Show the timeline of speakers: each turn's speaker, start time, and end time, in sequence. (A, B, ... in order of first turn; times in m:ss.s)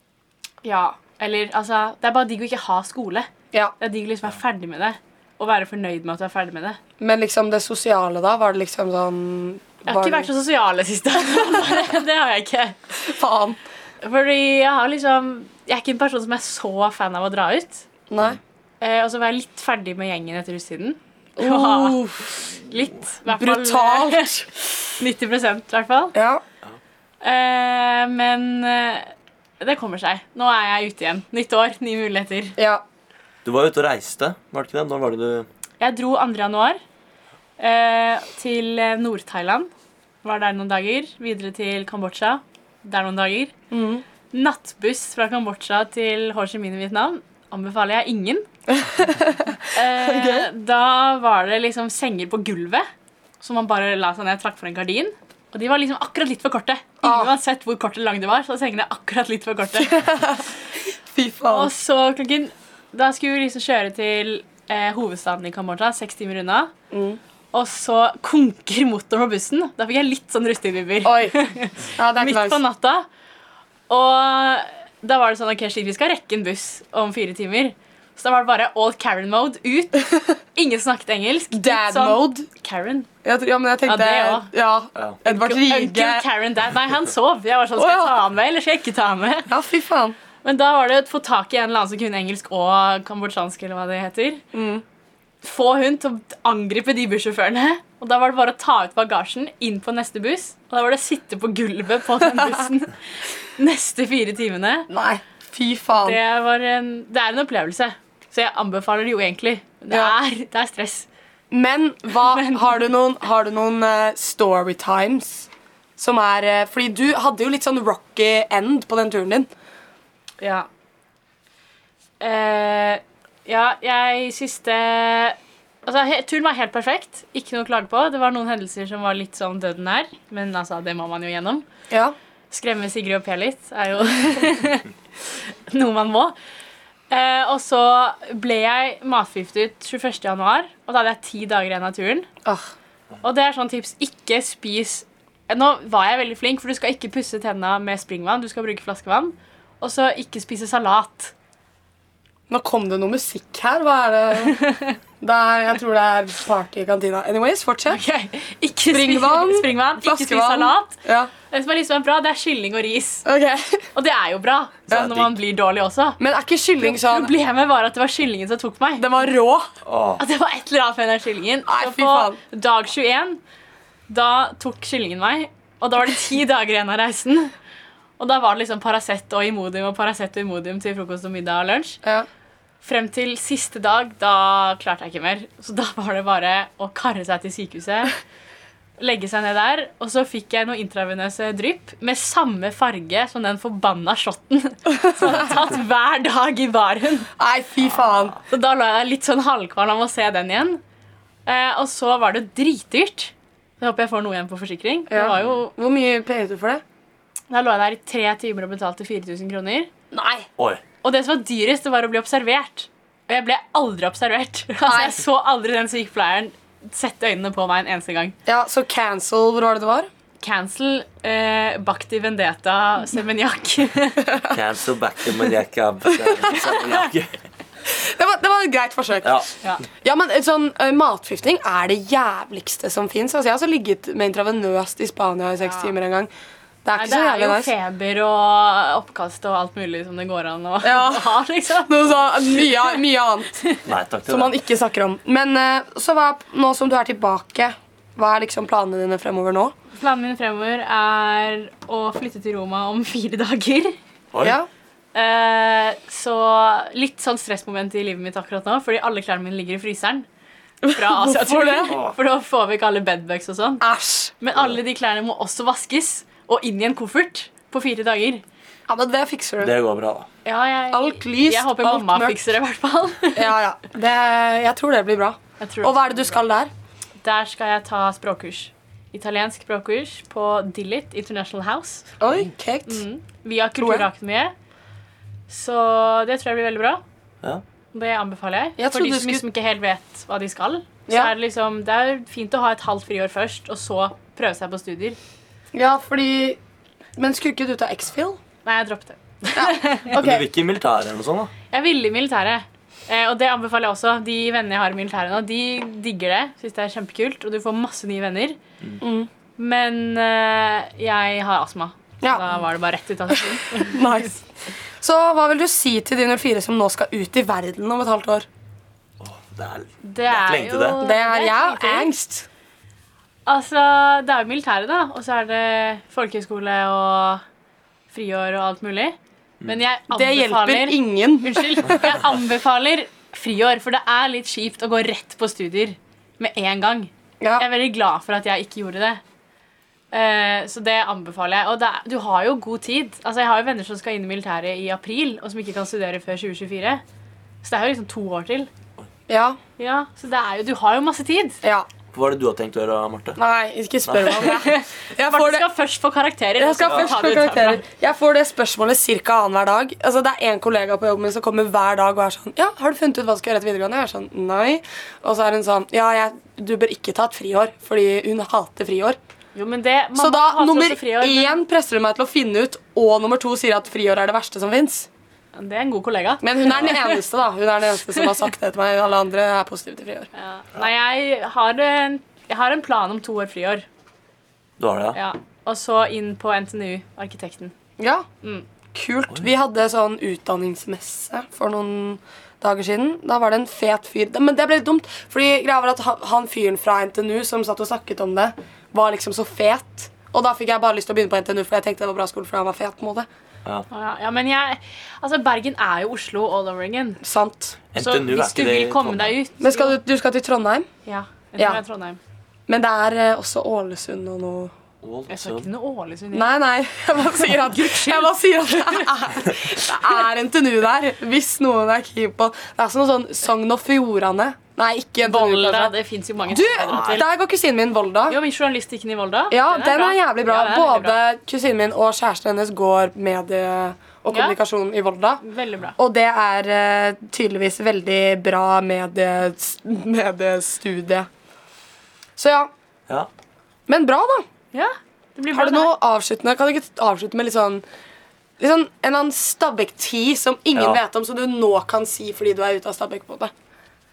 0:00.6-0:03.3 A
0:03.8-0:06.8 A
0:07.0-0:10.3 B
0:09.8-0:12.8 A
0:13.0-0:13.6 B
0:14.0-0:17.8 A
0:18.1-0:18.4 B
0:18.8-0:26.1 A
0:21.4-0:22.4 B
0:23.2-0:24.5 B
0:26.1-0:26.4 B
0:27.2-0:32.5 A
0:32.6-0:32.8 B
0:33.4-0:35.5 C
0:35.8-0:36.8 A
0:37.6-0:39.7 A
0:40.2-0:43.5 A
0:43.7-0:44.0 B
0:44.3-0:48.4 A
0:48.7-0:50.4 B
0:49.7-0:52.8 A
0:53.4-1:00.1 A
0:57.0-0:57.3 B
0:59.8-1:00.4 B
1:01.1-1:01.7 B
1:01.5-1:06.7 A
1:06.9-1:07.2 B
1:07.5-1:13.0 A
1:11.0-1:11.3 B
1:11.9-1:12.6 B
1:13.9-1:23.1 A
1:21.5-1:22.5 B
1:23.2-1:26.2 B
1:23.8-1:24.5 A
1:25.2-1:29.5 A
1:27.8-1:28.2 B
1:29.5-1:30.2 B
1:30.4-1:34.4 A
1:34.5-1:34.8 B
1:35.4-1:44.9 A
1:44.9-1:46.2 B
1:46.0-1:51.1 A
1:49.9-1:50.1 B
1:51.5-1:59.5 B
1:52.2-1:52.8 A
2:00.4-2:00.7 A
2:02.2-2:11.6 A
2:12.5-2:16.3 A
2:17.1-2:22.3 A
2:22.4-2:22.7 B
2:23.2-2:31.3 A
2:32.5-2:34.6 B
2:34.4-2:35.0 A
2:35.2-2:38.0 B
2:37.9-2:41.0 A
2:38.9-2:41.3 B
2:41.5-2:43.2 A
2:43.2-2:43.8 B
2:43.9-2:46.2 A
2:44.9-2:45.3 C
2:46.2-2:47.3 B
2:46.8-2:49.3 A
2:49.0-2:49.7 B
2:49.8-2:50.2 C
2:50.2-2:53.4 A
2:51.7-2:52.4 B
2:54.1-2:57.5 A
2:58.2-3:02.0 A
3:02.8-3:08.1 A
3:09.0-3:17.3 A
3:17.4-3:18.4 B
3:18.4-3:20.8 A
3:21.4-3:25.7 A
3:25.1-3:26.8 B
3:27.5-3:29.9 A
3:30.1-3:30.4 B
3:31.0-3:38.4 A
3:34.8-3:35.2 B
3:38.4-3:40.1 B
3:40.4-3:44.2 A
3:44.3-3:44.6 B
3:44.5-3:47.3 C
3:46.2-3:46.5 B
3:46.6-3:47.1 A
3:47.8-3:49.4 B
3:49.2-3:49.5 C
3:50.0-3:56.3 B
3:55.6-3:55.9 A
3:56.8-3:57.7 B
3:57.0-4:03.0 A
4:00.8-4:03.5 B
4:03.5-4:03.8 A
4:03.8-4:04.5 C
4:04.3-4:09.7 B
4:10.0-4:14.0 A
4:14.3-4:14.6 C
4:14.4-4:14.7 B
4:15.1-4:20.2 A
4:20.8-4:22.0 B
4:20.9-4:23.8 A
4:21.9-4:22.1 C
4:23.8-4:24.3 B
4:24.4-4:28.4 A
4:28.9-4:29.7 B
4:29.6-4:30.3 C
4:30.4-4:33.5 A
4:30.9-4:32.4 B
4:33.3-4:36.7 B
4:35.6-4:36.4 A
4:37.2-4:42.1 A
4:42.2-4:43.0 B
4:42.9-4:44.5 A
4:43.8-4:44.1 B
4:45.5-4:47.0 A
4:47.9-4:55.2 A
4:48.8-4:49.4 B
4:55.7-4:56.6 B
4:57.2-4:58.4 B
4:58.6-5:00.2 A
4:59.5-5:00.5 B
5:00.1-5:01.5 C
5:01.7-5:08.6 A
5:09.0-5:09.3 B
5:09.6-5:14.0 A
5:12.2-5:12.5 B
5:13.7-5:14.4 B
5:15.0-5:18.4 B
5:19.2-5:21.0 C
5:20.0-5:22.1 A
5:21.0-5:22.5 B
5:23.4-5:27.4 A
5:28.1-5:39.2 A
5:30.1-5:31.9 B
5:37.4-5:37.6 B
5:40.1-5:47.0 A
5:47.6-5:48.7 A
5:49.3-5:49.6 B
5:49.8-5:51.6 A
5:52.1-5:53.4 C
5:53.4-5:55.6 B
5:54.0-5:54.6 C
5:54.3-5:57.8 A
5:56.6-6:09.2 B
6:09.5-6:11.6 A
6:10.2-6:15.1 B
6:15.5-6:17.2 A
6:16.4-6:20.3 B
6:18.1-6:18.4 A
6:20.4-6:23.8 A
6:24.8-6:25.2 C
6:25.1-6:27.7 A
6:28.0-6:28.2 B
6:28.9-6:43.3 B
6:43.9-6:47.2 A
6:47.2-6:47.8 B
6:47.9-6:49.4 C
6:48.0-6:50.0 A
6:49.6-6:50.8 B
6:51.0-6:52.2 A
6:51.6-6:51.8 B
6:52.7-6:54.7 B
6:55.0-6:55.7 C
6:55.3-6:56.5 A
6:56.3-7:05.9 B
6:57.4-6:59.3 A
7:05.2-7:07.2 A
7:06.5-7:08.4 B
7:06.8-7:07.2 C
7:08.3-7:11.2 A
7:09.5-7:15.4 B
7:14.3-7:14.6 A
7:15.4-7:16.0 A
7:16.0-7:21.3 B
7:22.4-7:22.7 B
7:23.9-7:24.4 B
7:24.7-7:25.9 A
7:25.5-7:27.8 B
7:28.6-7:33.5 B
7:30.7-7:31.0 C